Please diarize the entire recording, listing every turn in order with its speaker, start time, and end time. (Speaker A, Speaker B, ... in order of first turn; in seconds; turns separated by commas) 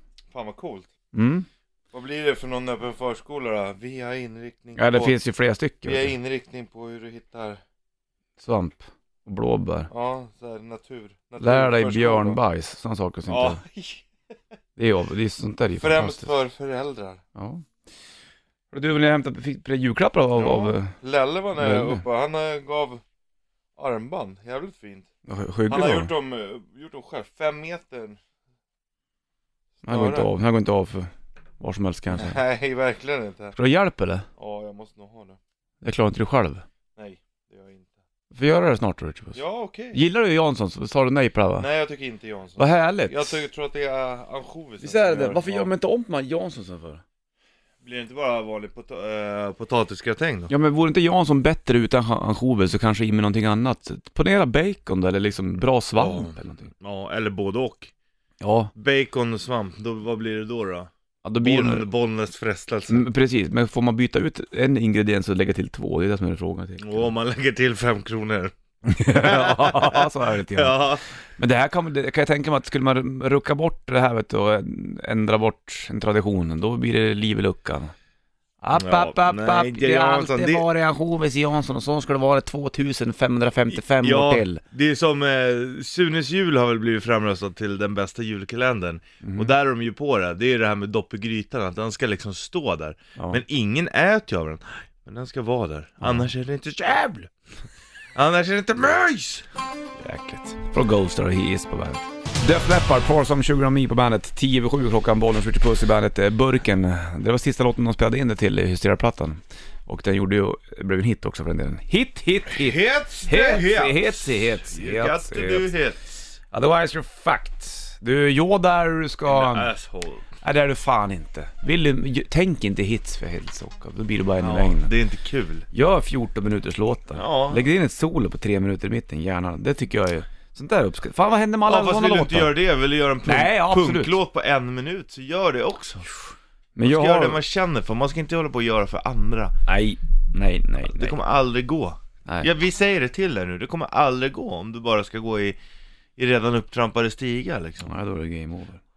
Speaker A: 0.3-0.9, Speaker B: 1.1-1.5, Speaker A: 1.9-5.1, Speaker B: 4.8-6.1, Speaker A: 5.8-7.6, Speaker B: 8.4-9.9, Speaker A: 9.9-12.4, Speaker B: 11.4-13.6, Speaker A: 13.3-14.1, Speaker B: 14.8-16.3, Speaker A: 15.8-17.2, Speaker B: 17.4-17.6, Speaker B: 18.7-20.9, Speaker A: 20.4-23.0, Speaker B: 21.6-22.0, Speaker A: 23.8-25.1, Speaker B: 25.2-26.1, Speaker A: 25.7-28.2, Speaker B: 29.8-32.4, Speaker A: 29.9-30.3, Speaker A: 32.1-33.5, Speaker B: 33.5-34.3, Speaker A: 34.4-35.4, Speaker B: 35.8-36.6, Speaker A: 37.0-37.9, Speaker B: 38.3-39.4, Speaker A: 39.3-40.0, Speaker B: 39.9-41.7, Speaker A: 41.6-45.7, Speaker B: 42.6-43.3, Speaker B: 44.8-47.0, Speaker A: 47.8-50.5, Speaker B: 50.5-56.7, Speaker A: 56.0-57.9, Speaker B: 58.4-58.7, Speaker A: 58.7-63.1, Speaker B: 61.2-61.9, Speaker B: 62.9-67.1, Speaker A: 66.8-71.0, Speaker B: 68.8-70.8, Speaker B: 71.4-77.9, Speaker B: 78.6-84.6, Speaker A: 78.7-80.7, Speaker A: 83.7-97.3, Speaker B: 89.2-89.5, Speaker B: 96.0-96.3, Speaker A: 98.1-99.5, Speaker B: 100.0-115.7, Speaker A: 112.5-116.2, Speaker B: 116.5-119.7, Speaker A: 119.3-120.3, Speaker B: 120.4-124.9, Speaker A: 124.4-125.7, Speaker B: 125.7-132.6, Speaker A: 127.1-127.7, Speaker A: 131.7-136.1, Speaker B: 133.2-134.2, Speaker B: 136.8-137.4, Speaker A: 136.8-139.5, Speaker B: 139.7-141.2, Speaker A: 140.8-145.6, Speaker A: 146.2-147.9, Speaker B: 147.8-148.8